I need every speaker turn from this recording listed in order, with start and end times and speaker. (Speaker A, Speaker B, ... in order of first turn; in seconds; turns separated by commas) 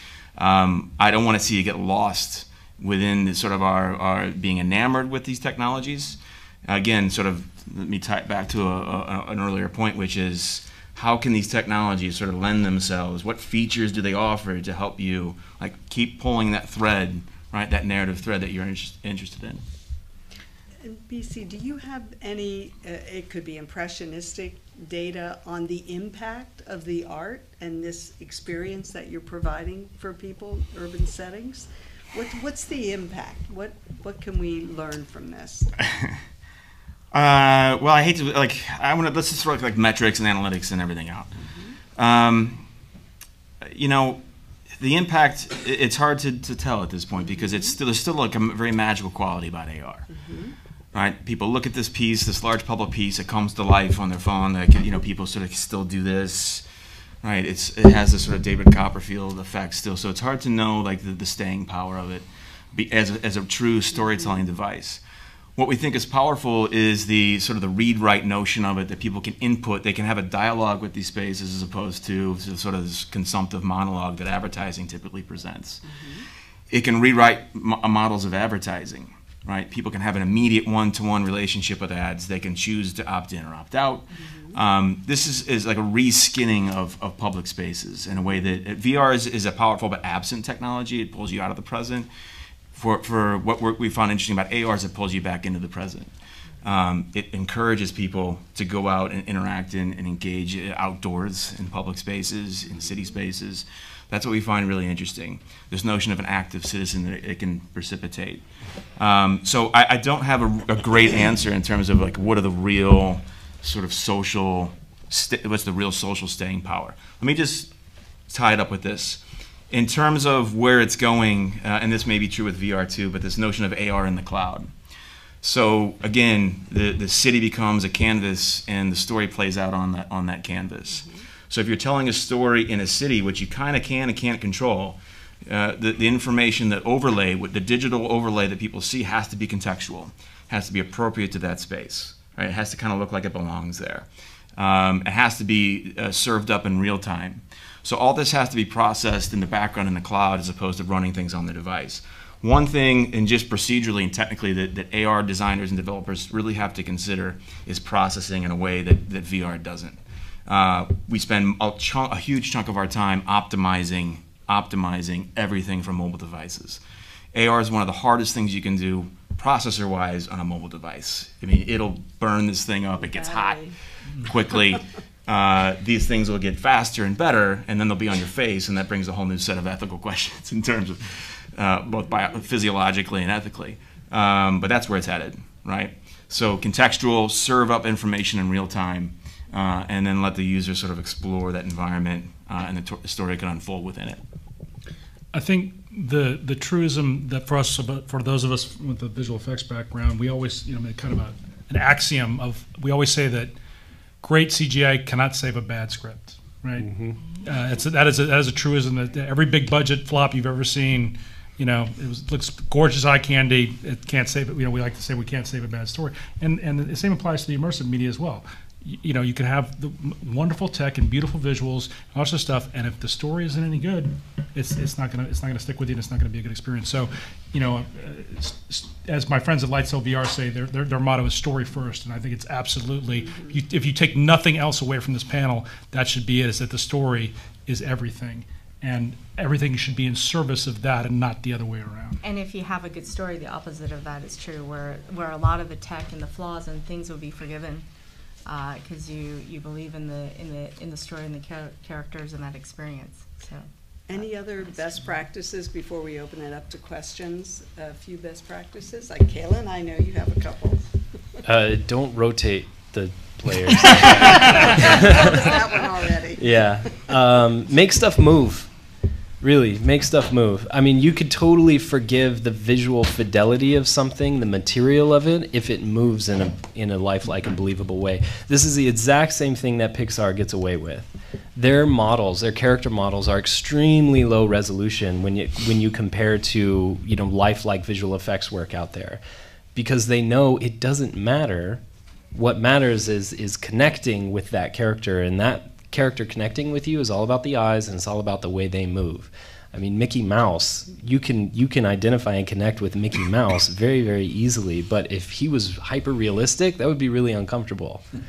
Speaker A: 0.3-19.6, Speaker B: 20.8-35.7, Speaker A: 37.1-41.3, Speaker B: 41.5-41.8, Speaker A: 42.0-42.6, Speaker A: 43.6-44.2, Speaker A: 44.7-50.1, Speaker B: 47.1-47.7, Speaker B: 50.1-50.5, Speaker A: 50.9-56.6, Speaker A: 57.2-65.0, Speaker A: 65.5-75.8, Speaker B: 75.8-76.2, Speaker A: 76.7-92.1, Speaker B: 84.1-84.6, Speaker A: 92.7-96.1, Speaker A: 96.6-108.4, Speaker A: 109.0-117.7, Speaker A: 118.3-124.7, Speaker A: 125.4-166.8, Speaker B: 130.9-131.2, Speaker A: 167.3-194.2, Speaker B: 173.0-173.7, Speaker C: 195.3-203.5, Speaker C: 204.2-242.2, Speaker D: 206.8-207.2, Speaker B: 233.1-233.6, Speaker E: 242.2-247.8, Speaker E: 248.4-254.3, Speaker B: 254.1-260.8, Speaker D: 261.4-265.5, Speaker B: 263.8-266.8, Speaker D: 266.4-268.7, Speaker D: 269.4-289.2, Speaker D: 289.7-291.8, Speaker D: 292.3-308.0